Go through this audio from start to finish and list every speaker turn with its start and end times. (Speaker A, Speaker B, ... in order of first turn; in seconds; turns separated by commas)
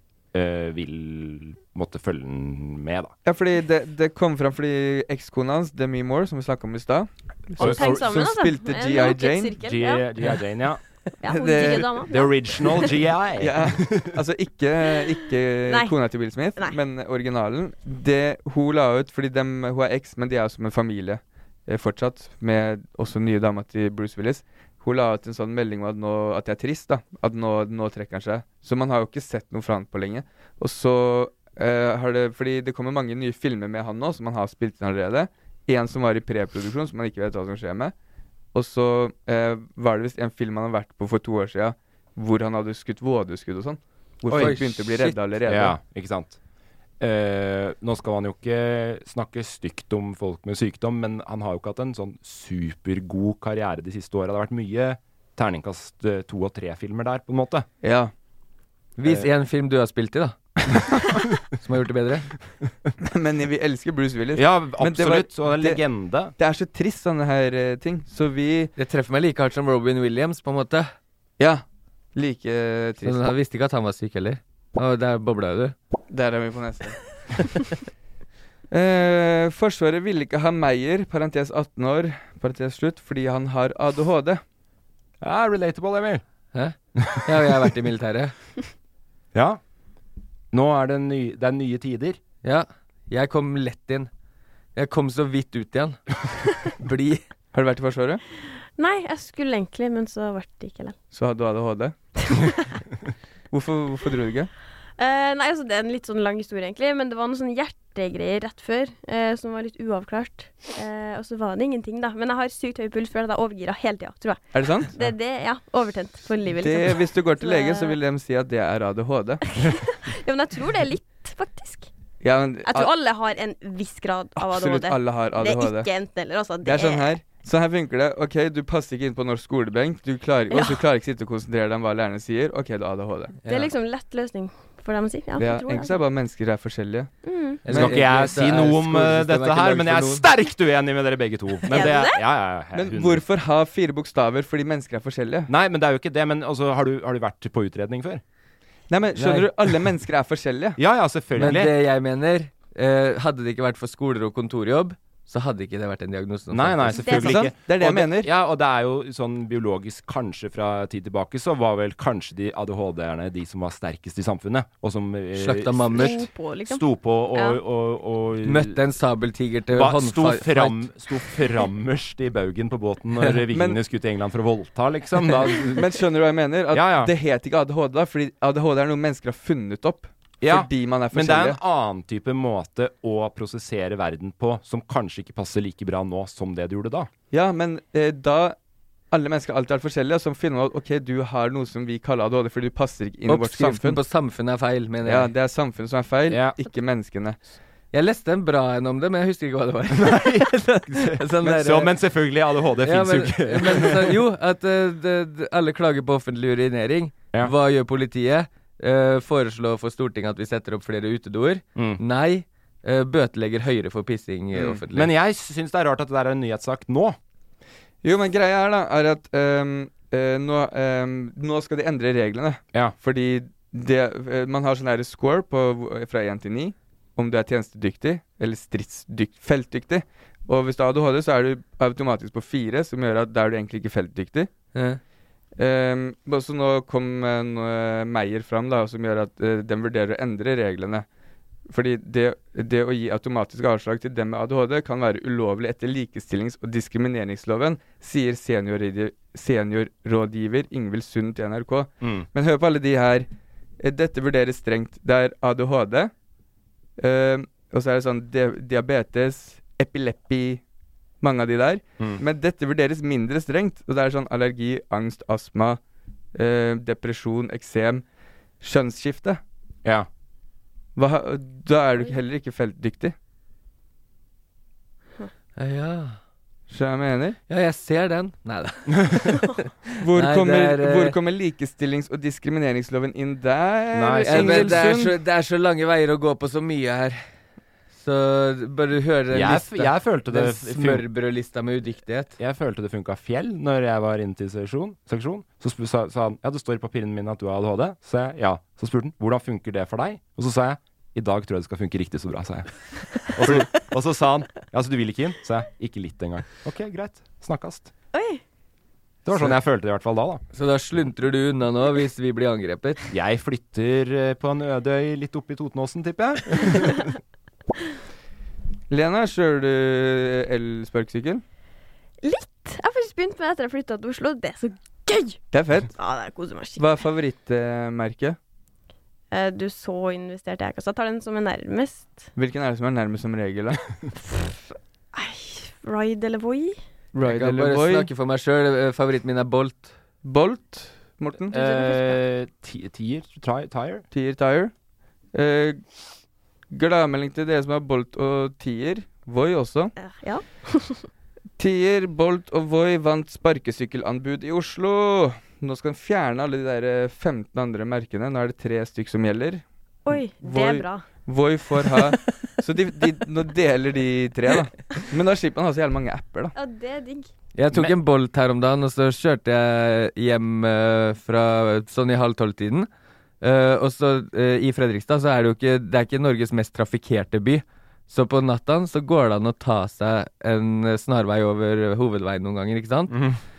Speaker A: 0.3-3.1, Speaker B: 3.2-9.6, Speaker C: 7.6-10.0, Speaker A: 7.6-8.3, Speaker A: 9.6-10.8, Speaker C: 11.2-12.9, Speaker B: 11.3-12.2, Speaker A: 12.0-14.2, Speaker B: 13.4-37.9, Speaker C: 15.7-15.9, Speaker B: 38.5-45.8, Speaker D: 44.3-45.1, Speaker A: 44.3-44.6, Speaker A: 45.5-46.4, Speaker A: 47.0-57.6, Speaker B: 57.8-58.1, Speaker D: 59.0-60.8, Speaker D: 61.5-62.3, Speaker B: 63.0-65.8, Speaker A: 64.3-66.3, Speaker B: 66.4-68.7, Speaker D: 68.8-70.9, Speaker B: 72.1-73.3, Speaker D: 73.0-75.7, Speaker B: 76.1-77.0, Speaker B: 78.7-84.4, Speaker A: 85.2-86.2, Speaker D: 86.5-88.3, Speaker A: 87.0-87.7, Speaker A: 89.3-89.6, Speaker A: 90.5-92.2, Speaker D: 92.4-94.1, Speaker D: 94.7-96.0, Speaker D: 96.8-97.2, Speaker B: 97.5-98.2, Speaker C: 98.8-101.0, Speaker B: 101.1-101.9, Speaker B: 103.5-104.5, Speaker C: 105.0-118.0, Speaker B: 114.5-114.9, Speaker B: 116.5-119.4, Speaker C: 119.6-121.9, Speaker B: 122.2-122.9, Speaker C: 122.7-127.1, Speaker B: 124.4-125.9, Speaker B: 126.6-133.3, Speaker C: 130.5-130.8, Speaker D: 133.4-133.7, Speaker C: 133.5-136.0, Speaker B: 135.4-137.1, Speaker C: 137.2-137.6, Speaker D: 137.6-140.3, Speaker A: 137.7-143.2, Speaker C: 141.7-142.2, Speaker B: 142.7-145.5, Speaker A: 145.5-148.2, Speaker B: 148.9-150.8, Speaker D: 149.2-149.5, Speaker A: 150.8-151.7, Speaker D: 151.4-157.1, Speaker A: 156.5-168.8, Speaker C: 157.0-157.4, Speaker B: 157.1-158.3, Speaker D: 165.3-166.2, Speaker C: 165.9-167.6, Speaker D: 168.4-170.9, Speaker A: 169.7-176.0, Speaker B: 173.5-173.8, Speaker B: 175.6-181.6, Speaker A: 176.7-177.1, Speaker A: 180.4-187.1, Speaker B: 187.3-188.6, Speaker B: 189.1-194.0, Speaker D: 193.3-195.3, Speaker B: 195.0-197.4, Speaker A: 196.3-196.6, Speaker D: 197.9-201.9, Speaker A: 199.9-204.2, Speaker D: 202.8-215.1, Speaker B: 214.5-214.8, Speaker A: 214.9-217.2, Speaker B: 218.0-234.5, Speaker D: 234.7-235.0, Speaker B: 235.6-241.0, Speaker B: 241.7-253.3, Speaker A: 252.0-252.3, Speaker B: 253.8-256.1, Speaker B: 257.0-260.6, Speaker B: 261.2-265.8, Speaker B: 266.3-268.0, Speaker B: 268.6-269.4, Speaker B: 270.9-273.1, Speaker D: 275.6-276.2, Speaker B: 276.7-277.4, Speaker D: 277.5-281.1, Speaker B: 280.0-285.1, Speaker A: 283.9-284.8, Speaker D: 284.2-287.2, Speaker D: 287.9-292.4, Speaker A: 289.3-291.0, Speaker A: 292.4-307.9, Speaker C: 308.1-308.4, Speaker A: 309.2-310.4, Speaker D: 310.5-313.0, Speaker A: 313.1-317.1, Speaker B: 318.9-321.4, Speaker C: 322.2-325.4, Speaker B: 325.5-325.9, Speaker C: 325.9-326.8, Speaker B: 326.8-328.4, Speaker C: 329.3-332.2, Speaker B: 332.4-333.8, Speaker C: 334.3-334.6, Speaker C: 335.1-336.8, Speaker B: 337.1-338.1, Speaker D: 337.2-339.9, Speaker B: 340.2-341.6, Speaker A: 341.5-344.0, Speaker C: 341.5-342.2, Speaker B: 344.1-344.7, Speaker B: 345.3-345.8, Speaker B: 346.7-349.9, Speaker C: 350.0-351.1, Speaker B: 351.6-366.5, Speaker C: 360.1-361.0, Speaker C: 366.6-367.3, Speaker D: 367.5-372.9, Speaker D: 373.4-383.2, Speaker A: 383.1-383.4